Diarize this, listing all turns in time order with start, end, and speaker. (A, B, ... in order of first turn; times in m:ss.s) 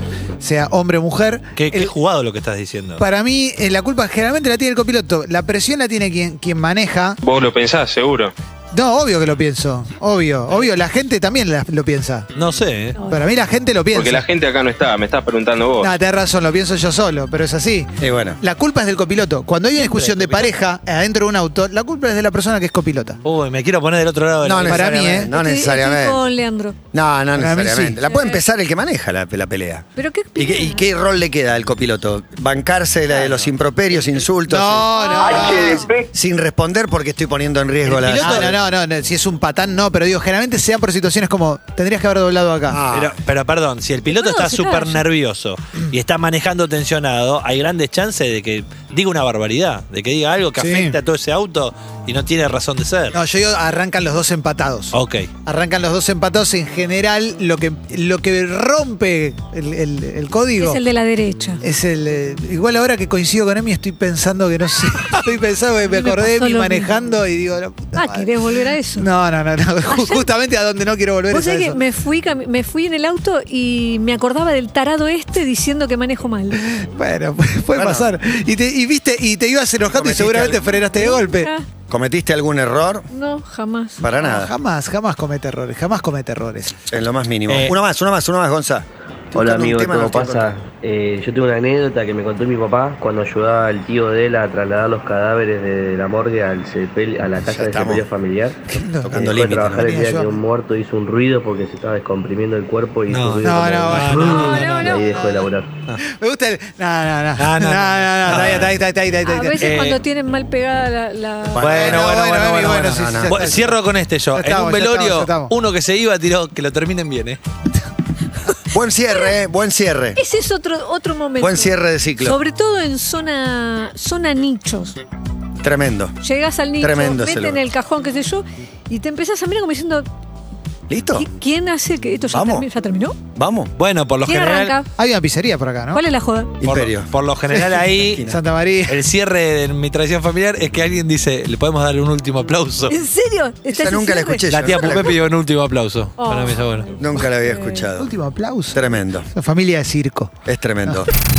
0:00.4-0:01.9 A
0:01.6-0:03.0 B
0:03.0-0:07.2 A
0:07.2-0:08.3 C
0:08.7-0:12.3 A
0:12.4-0:13.0 B
0:13.1-0:14.2 A
0:13.9-0:15.9 C
0:15.8-0:23.2 A
0:18.0-0:18.4 D
0:19.8-0:20.5 B
0:23.2-0:24.9 B
0:24.4-0:26.3 D
0:24.6-0:25.3 A
0:25.3-0:26.8 E
0:26.9-0:29.9 D
0:27.4-0:28.0 A
0:28.0-0:28.4 E
0:30.0-0:30.9 E
0:30.4-0:35.6 D
0:34.5-0:35.9 A
0:35.0-0:35.9 E
0:36.1-0:38.6 D
0:37.8-0:38.5 B
0:38.2-0:42.8 A
0:42.7-0:43.2 D
0:42.9-0:53.2 B
0:44.1-0:45.0 E
0:50.6-0:51.0 A
0:53.1-1:00.8 A
0:54.9-0:55.3 B
1:00.6-1:01.6 E
1:01.6-1:08.3 A
1:05.9-1:07.0 E
1:08.0-1:09.1 E
1:09.0-1:11.8 A
1:09.9-1:10.3 E
1:11.3-1:16.6 E
1:16.6-1:21.5 A
1:17.8-1:18.1 D
1:19.9-1:20.6 D
1:20.6-1:21.7 E
1:21.9-1:23.1 D
1:23.1-1:24.0 E
1:24.0-1:24.5 D
1:24.1-1:26.8 A
1:26.9-1:30.6 D
1:27.5-1:27.8 B
1:29.3-1:38.6 F
1:37.5-1:38.0 D
1:38.7-1:40.3 A
1:39.0-1:39.9 D
1:39.1-1:45.7 F
1:43.1-1:45.0 B
1:43.4-1:45.4 A
1:44.4-1:45.2 E
1:46.1-1:49.6 A
1:47.4-1:48.7 B
1:49.2-1:51.8 E
1:49.6-1:50.0 B
1:51.6-1:52.1 D
1:51.6-1:57.4 B
1:51.7-1:53.8 A
1:52.9-1:53.7 D
1:54.3-1:55.5 A
1:58.7-2:00.2 D
2:00.2-2:05.0 E
2:01.4-2:02.4 D
2:05.6-2:06.2 D
2:06.2-2:10.1 E
2:06.8-2:07.6 D
2:10.9-2:11.3 D
2:11.2-2:13.2 E
2:12.3-2:12.7 D
2:13.4-2:13.7 D
2:13.8-2:14.8 B
2:14.2-2:14.9 E
2:15.0-2:16.0 A
2:15.9-2:16.6 E
2:16.6-2:18.4 D
2:16.6-2:18.3 B
2:18.3-2:19.0 A
2:18.9-2:23.0 B
2:22.9-2:25.1 E
2:23.7-2:25.1 D
2:24.5-2:26.9 B
2:26.2-2:27.9 E
2:27.0-2:28.1 D
2:28.0-2:30.3 A
2:28.7-2:29.3 D
2:30.5-2:31.1 D